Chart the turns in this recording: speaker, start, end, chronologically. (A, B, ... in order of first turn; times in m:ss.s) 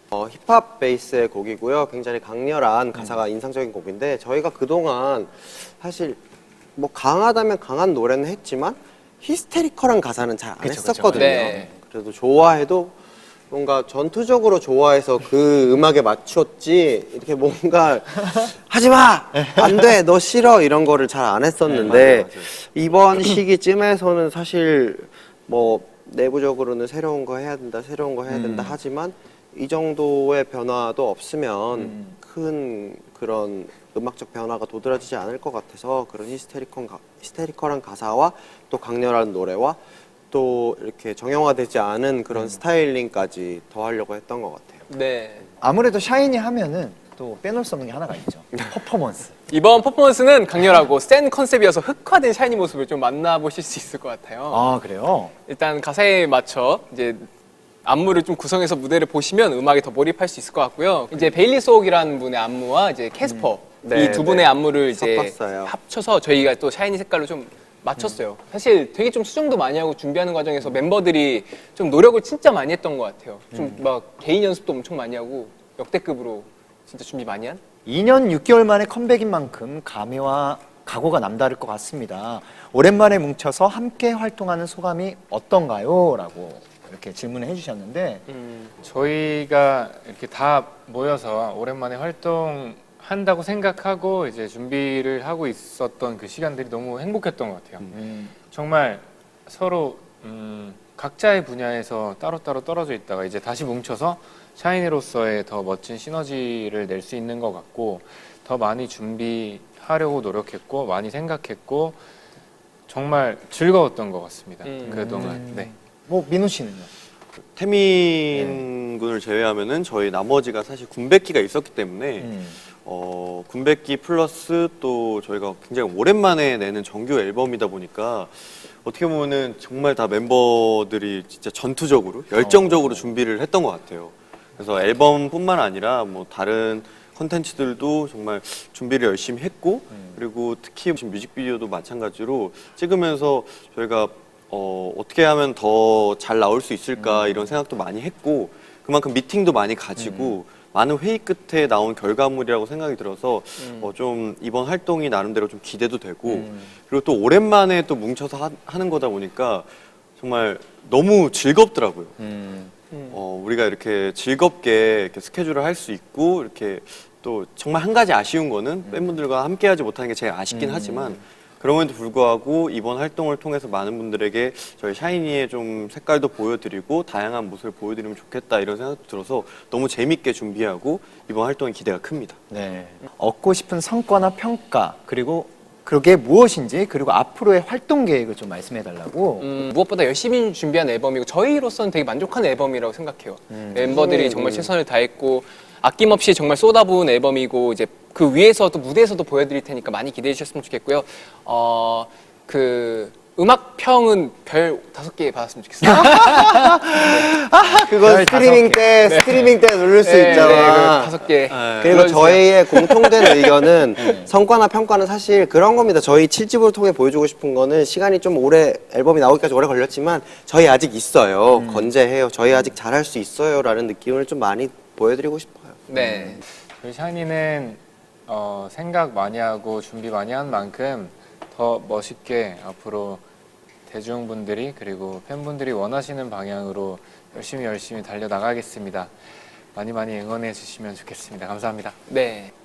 0:00.1-0:06.2 A
0:06.8-0:13.0 A
0:10.6-0:11.7 B
0:11.2-0:11.7 C
0:13.5-0:39.8 A
0:19.3-0:19.9 B
0:21.7-0:22.5 D
0:28.3-0:28.8 B
0:31.8-0:32.2 B
0:40.3-0:44.9 A
0:44.9-0:45.5 C
0:45.6-0:49.3 B
0:49.5-0:54.7 C
0:54.5-0:55.3 B
0:55.5-0:57.3 C
0:57.8-1:17.6 C
1:03.8-1:05.7 A
1:13.5-1:13.8 B
1:17.9-1:28.2 B
1:28.3-1:28.7 C
1:28.8-1:52.0 E
1:37.9-1:38.3 B
1:52.9-1:55.7 E
1:54.6-1:55.3 C
1:54.8-1:56.9 B
1:57.4-2:42.2 D
1:58.3-1:58.6 B
2:02.2-2:02.6 B
2:12.3-2:13.1 B
2:27.0-2:27.6 B
2:30.0-2:30.4 B
2:33.6-2:33.9 C
2:36.2-2:36.7 B
2:42.2-2:42.7 B
2:42.9-2:43.2 C
2:43.1-3:02.4 D
2:48.9-2:49.2 B
2:50.5-2:51.2 B
3:02.5-3:09.5 B
3:09.4-3:26.3 C
3:13.5-3:13.9 B
3:13.8-3:14.7 A
3:25.9-3:46.1 A
3:26.0-3:26.9 B
3:27.0-3:27.3 C
3:27.6-3:28.9 B
3:29.0-3:33.5 C
3:30.3-3:30.7 B
3:31.5-3:32.2 D
3:34.0-3:34.3 B
3:41.5-3:41.9 B
3:45.9-3:46.4 C
3:46.7-3:53.2 E
3:53.9-3:59.1 E
3:59.7-4:02.0 E
4:02.1-4:02.5 C